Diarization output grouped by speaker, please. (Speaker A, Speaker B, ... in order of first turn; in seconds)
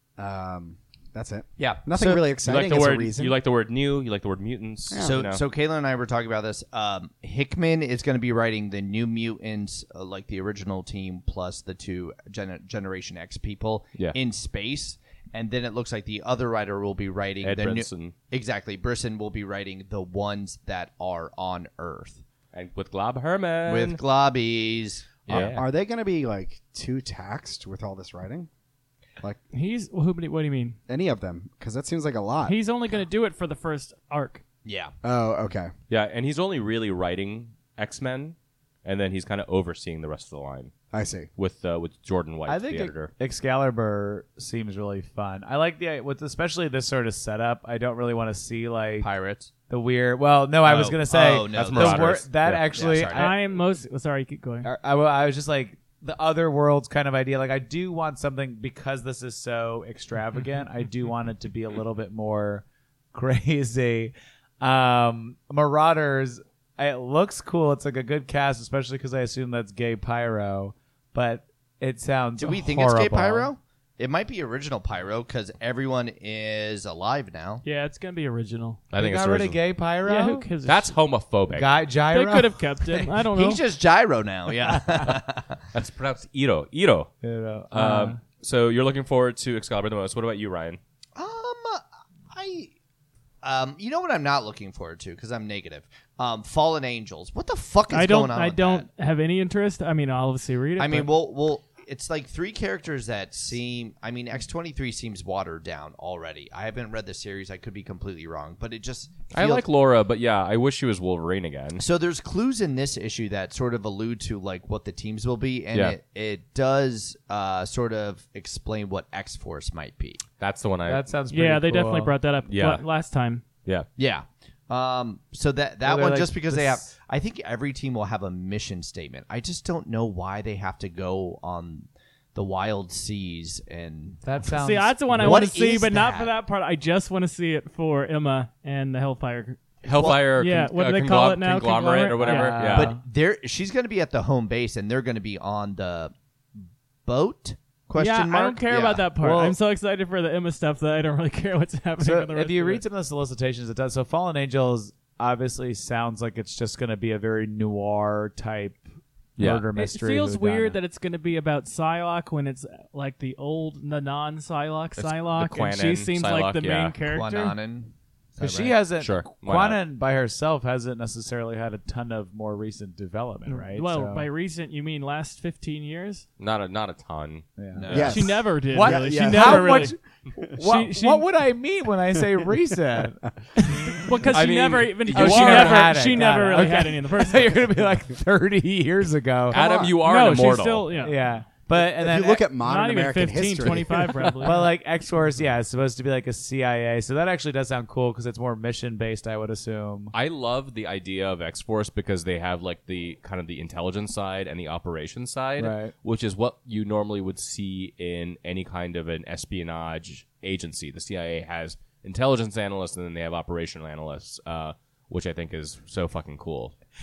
Speaker A: 0.2-3.4, 4.9-5.2, 25.3-28.5, 30.9-32.6, 35.0-35.7, 40.9-41.3, 177.9-180.5, 189.5-189.9, 191.7-194.3
Speaker B: 1.6-2.1, 5.0-22.2, 23.7-25.5, 34.6-34.9, 49.0-49.5, 50.6-53.4, 72.4-77.6, 82.9-85.6, 91.2-92.7, 93.4-98.9, 100.8-109.6, 111.8-120.2, 124.0-134.2, 135.2-136.3, 139.9-140.2, 142.7-146.1, 147.1-149.1, 167.0-168.8, 177.8-178.3
Speaker C: 2.0-5.4, 17.4-18.1, 22.5-24.0, 25.3-25.6, 35.9-40.7, 41.4-43.1, 51.5-52.7, 78.9-79.6, 80.6-81.7, 85.7-87.1, 87.7-90.8, 109.3-111.8, 120.4-121.1, 122.5-122.8, 139.8-142.9, 159.4-159.7, 165.0-166.9, 169.0-169.8, 176.4-178.1, 184.3-186.1, 189.5-190.9, 200.1-216.7
Speaker D: 29.5-30.8, 32.4-34.4, 53.1-54.7, 77.6-78.8, 80.0-80.9, 82.1-83.6, 97.9-101.1, 121.3-123.4, 134.5-139.6, 140.2-142.7, 147.9-152.8, 159.7-167.6, 173.5-176.2, 177.9-180.0, 180.6-181.2, 183.9-187.6, 189.9-191.2, 192.6-194.7
Speaker E: 42.5-49.1, 49.7-53.5, 54.6-73.5, 78.9-80.5, 81.5-82.5, 87.2-88.2, 120.8-122.2, 125.8-126.9, 134.2-135.6, 142.2-143.0, 149.2-149.6, 152.0-158.8, 159.4-160.8, 168.4-174.3, 177.6-180.0, 180.6-184.0, 185.1-189.6, 191.0-192.5, 194.4-200.1, 205.6-205.9